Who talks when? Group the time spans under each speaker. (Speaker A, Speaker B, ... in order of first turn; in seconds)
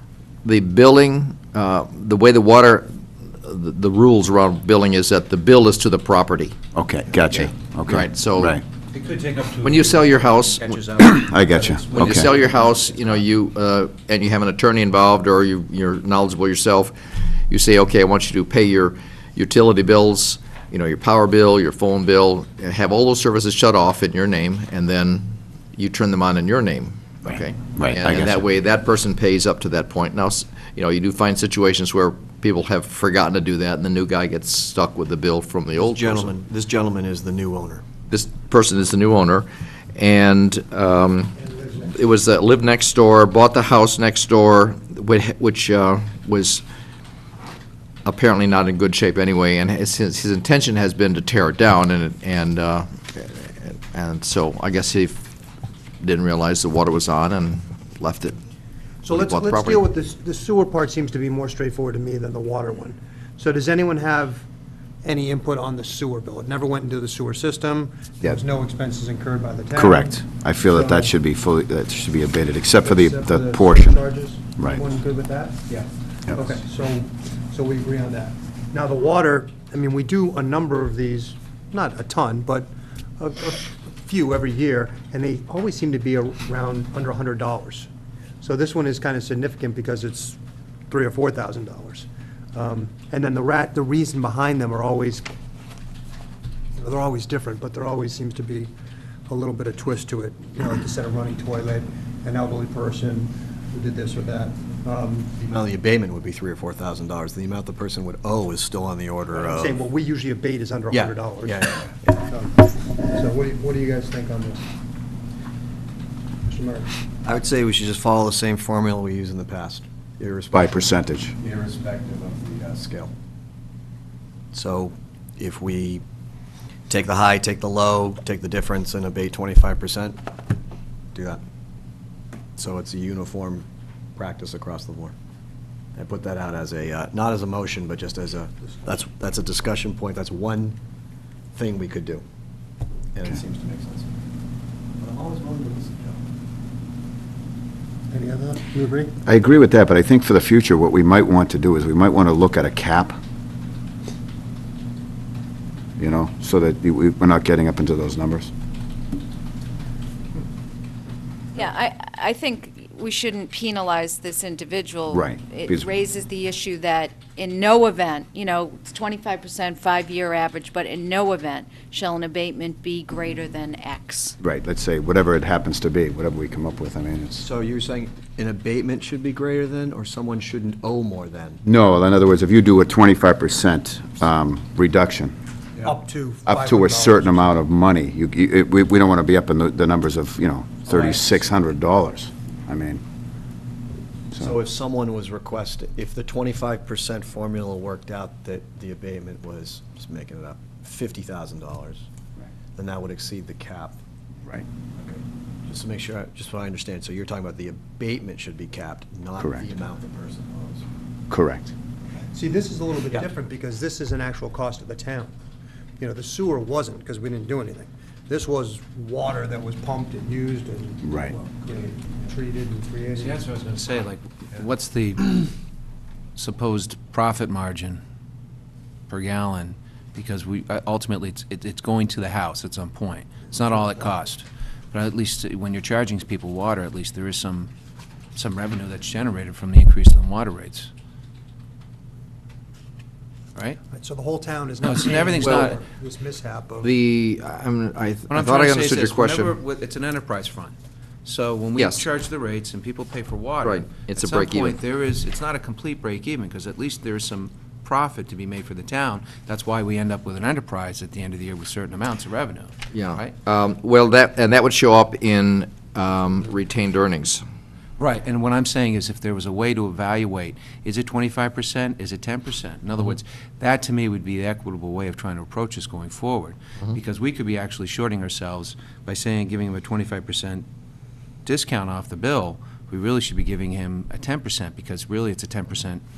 Speaker A: 0.4-6.5, 7.9-8.6, 9.6-11.2, 11.9-36.4, 38.1-46.6, 48.0-55.2, 56.0-58.4, 59.1-59.8, 245.4-245.7, 246.8-249.5, 251.8-252.0, 253.6-254.8, 262.9-267.4
Speaker B: 6.7-8.6, 11.0-12.3, 27.8-28.4, 69.7-74.0, 120.5-121.3, 149.2-153.2, 156.0-158.5, 165.1-165.9, 174.4-177.4, 181.6-185.3, 186.4-193.0, 209.4-209.7, 211.3-211.7, 221.0-221.3
Speaker C: 8.9-13.1, 223.2-225.5, 226.3-228.0, 229.1-237.7, 238.3-240.9, 244.8-245.8, 248.3-250.7, 251.2-263.3, 268.0-280.6, 281.4-286.0
Speaker D: 35.8-37.8, 105.4-109.8, 110.9-112.2, 117.2-123.1, 124.5-126.0, 126.9-130.2, 131.1-131.4, 132.6-135.1, 135.9-140.8, 141.5-142.2, 143.1-144.1, 145.0-146.2, 177.4-181.6, 190.9-191.2, 194.3-202.0, 202.7-204.0, 205.0-210.8
Speaker E: 41.4-41.9, 59.0-64.4, 65.0-71.1, 72.8-75.8, 76.3-87.9, 88.4-90.4, 90.9-95.3, 96.7-98.7, 99.3-105.4, 109.3-112.5, 113.1-114.6, 116.5-116.9, 148.1-149.1, 185.8-187.5, 212.3-215.3, 216.0-223.4, 243.9-246.9
Speaker F: 161.5-174.4